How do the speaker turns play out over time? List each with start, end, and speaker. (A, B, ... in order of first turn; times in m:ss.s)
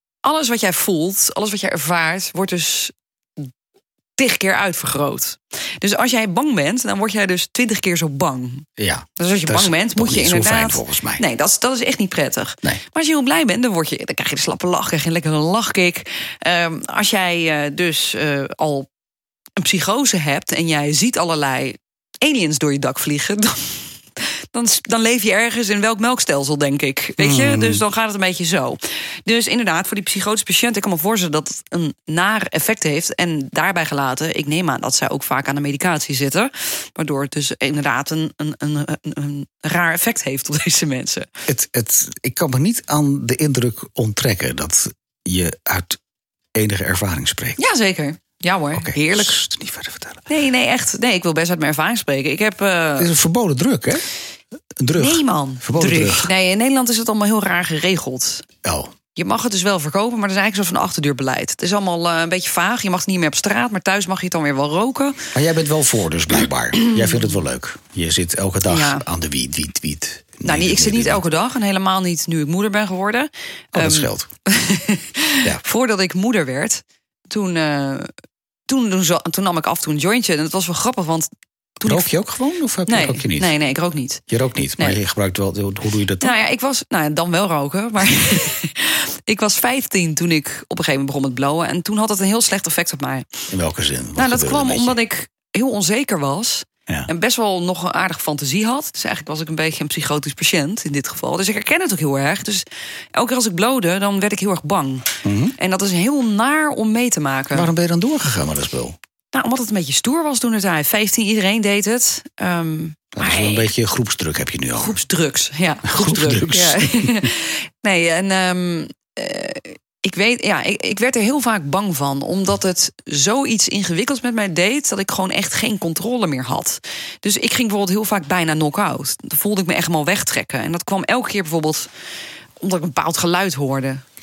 0:00.2-0:03.5 A
0:04.2-0:08.7 A
0:08.8-0:11.2 B
0:09.2-0:18.9 A
0:19.6-0:41.3 A
0:27.2-0:27.8 B
0:41.5-0:46.0 B
0:46.6-0:47.6 B
0:47.6-0:49.4 A
0:48.7-0:50.2 B
0:50.3-0:53.1 A
0:53.0-0:54.1 B
0:54.8-0:56.3 B
0:55.0-0:58.5 A
0:58.6-0:58.9 B
0:59.2-1:05.3 A
1:05.3-1:11.2 B
1:06.8-1:07.2 A
1:08.7-1:09.0 A
1:10.4-1:18.1 A
1:13.7-1:14.3 B
1:18.7-1:22.1 A
1:21.8-1:23.5 B
1:22.9-1:24.2 A
1:24.3-1:26.3 B
1:26.2-1:33.3 A
1:33.5-1:35.0 B
1:34.2-1:47.7 A
1:45.2-1:45.6 B
1:47.5-1:49.0 B
1:49.3-1:53.7 A
1:53.2-1:55.0 B
1:54.8-2:11.9 A
1:55.8-1:57.3 B
2:12.6-2:14.0 A